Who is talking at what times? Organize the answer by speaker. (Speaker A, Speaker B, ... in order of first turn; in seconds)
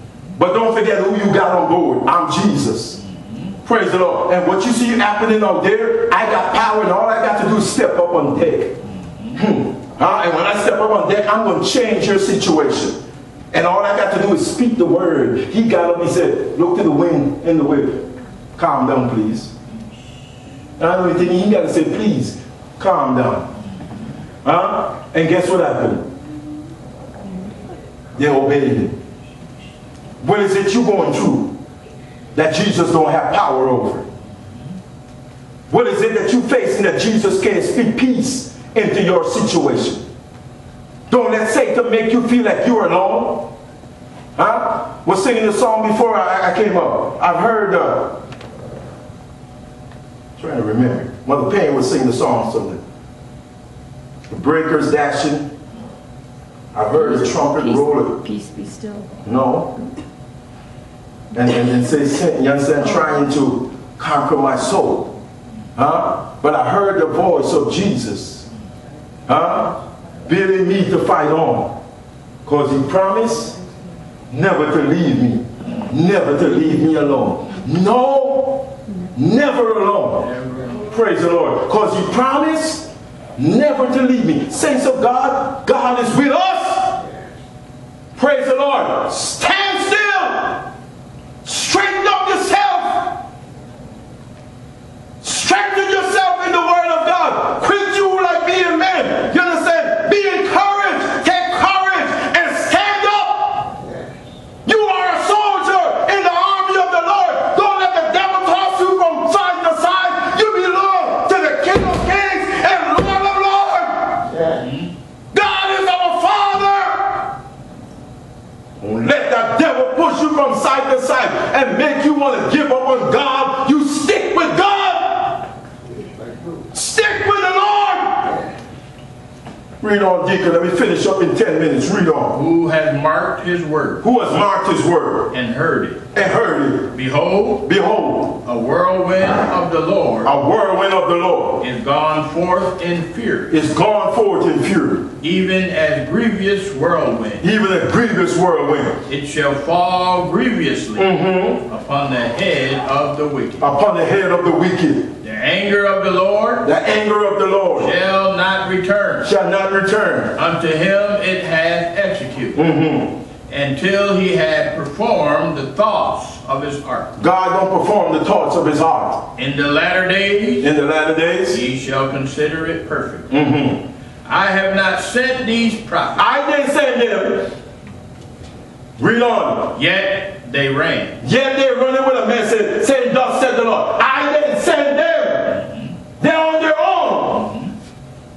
Speaker A: 0.3-3.0, 3.6-8.8, 9.3-19.5, 20.8-23.5, 24.4-26.1, 28.1-29.0, 30.2-31.6, 32.3-34.0, 35.7-40.1, 41.1-43.5, 44.4-48.2, 50.4-52.8, 54.3-55.5, 56.7-58.2, 59.2-59.7, 61.3-65.1, 65.8-68.4, 69.3-71.8, 72.5-73.6, 74.3-80.2, 80.9-87.0, 88.2-90.7, 91.4-93.2, 95.2-103.8, 104.6-114.5, 115.3-117.3, 118.8-125.5, 126.7-128.4, 129.8-132.4, 134.0-135.3, 136.1-136.9, 137.6-138.4, 140.2-141.6, 143.5-145.1, 147.4-149.0, 150.9-151.6, 153.6-155.1, 156.6-157.9, 159.2-160.3, 162.5-163.2, 167.2-169.3, 170.6-171.6, 173.3-173.9, 176.2-177.5, 179.0-179.8, 181.2-185.7, 186.2-187.5
Speaker B: 3.0-3.6, 8.8-9.4, 80.2-80.9, 114.5-114.9, 132.3-134.0, 135.3-136.1, 136.9-137.7, 138.4-140.3, 141.6-143.5, 145.2-147.5, 149.1-153.6, 155.2-156.7, 157.8-159.3, 160.3-162.6, 163.5-167.1, 169.4-170.7, 171.5-173.3, 174.2-176.3, 179.7-181.2
Speaker C: 56.9-59.2